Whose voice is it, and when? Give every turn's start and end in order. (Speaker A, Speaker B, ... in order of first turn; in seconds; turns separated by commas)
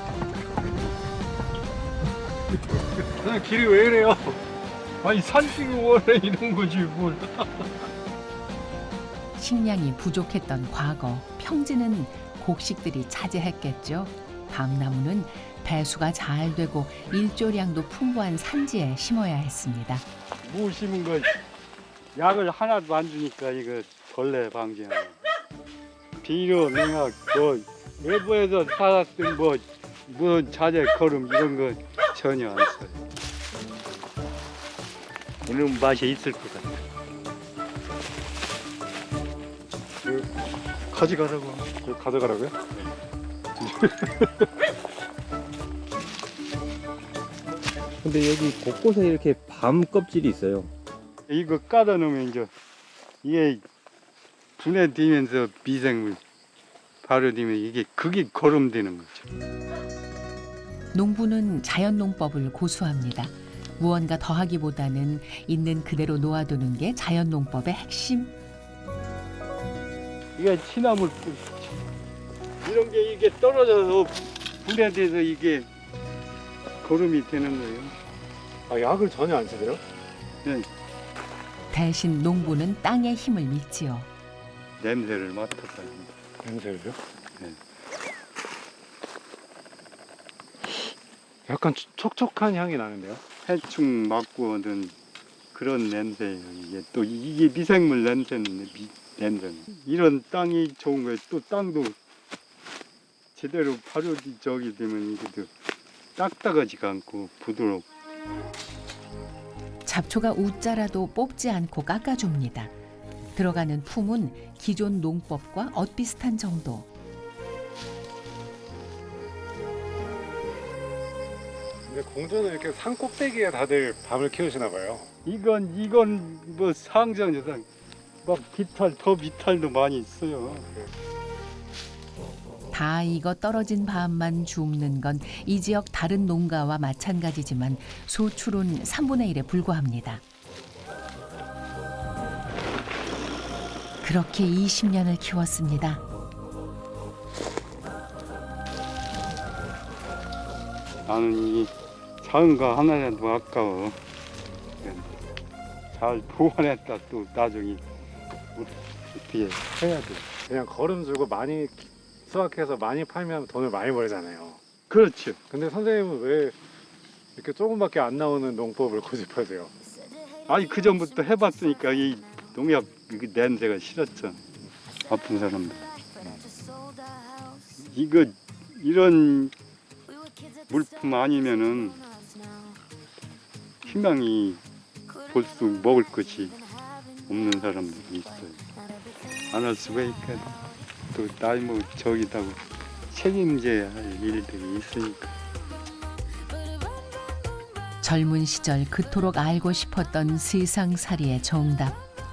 Speaker A: 3.2-4.3, Speaker B: 5.0-7.6, Speaker C: 9.4-20.0, Speaker B: 20.4-21.3, Speaker B: 22.1-25.3, Speaker B: 26.2-33.0, Speaker B: 35.5-36.8, Speaker B: 40.9-41.7, Speaker A: 41.8-42.6, Speaker A: 43.9-44.2, Speaker D: 48.0-50.7, Speaker B: 51.3-52.5, Speaker B: 53.2-53.6, Speaker B: 54.6-56.2, Speaker B: 57.0-59.3, Speaker C: 60.9-68.3, Speaker B: 70.4-71.8, Speaker B: 72.6-75.7, Speaker B: 76.8-78.0, Speaker A: 78.7-79.8, Speaker C: 81.7-84.1, Speaker B: 84.8-86.1, Speaker A: 86.4-87.0, Speaker A: 91.5-93.2, Speaker B: 93.4-94.9, Speaker B: 95.5-101.9, Speaker B: 103.3-105.5, Speaker B: 106.2-107.8, Speaker C: 109.8-112.7, Speaker C: 113.3-116.9, Speaker A: 121.9-125.1, Speaker B: 125.2-127.7, Speaker B: 128.2-130.7, Speaker C: 132.7-140.2, Speaker C: 144.0-146.0, Speaker B: 151.1-154.0, Speaker B: 154.8-155.1, Speaker B: 155.9-157.8, Speaker B: 158.6-160.3, Speaker A: 160.3-164.6, Speaker B: 164.9-165.4, Speaker A: 165.5-166.6, Speaker A: 167.4-169.7, Speaker B: 170.5-174.4, Speaker B: 175.1-176.4, Speaker B: 177.8-179.5, Speaker B: 180.7-182.0, Speaker B: 183.8-184.6, Speaker B: 185.3-186.6, Speaker B: 187.3-188.6, Speaker B: 189.5-190.6, Speaker B: 191.1-192.6, Speaker B: 193.1-195.3, Speaker C: 198.0-202.0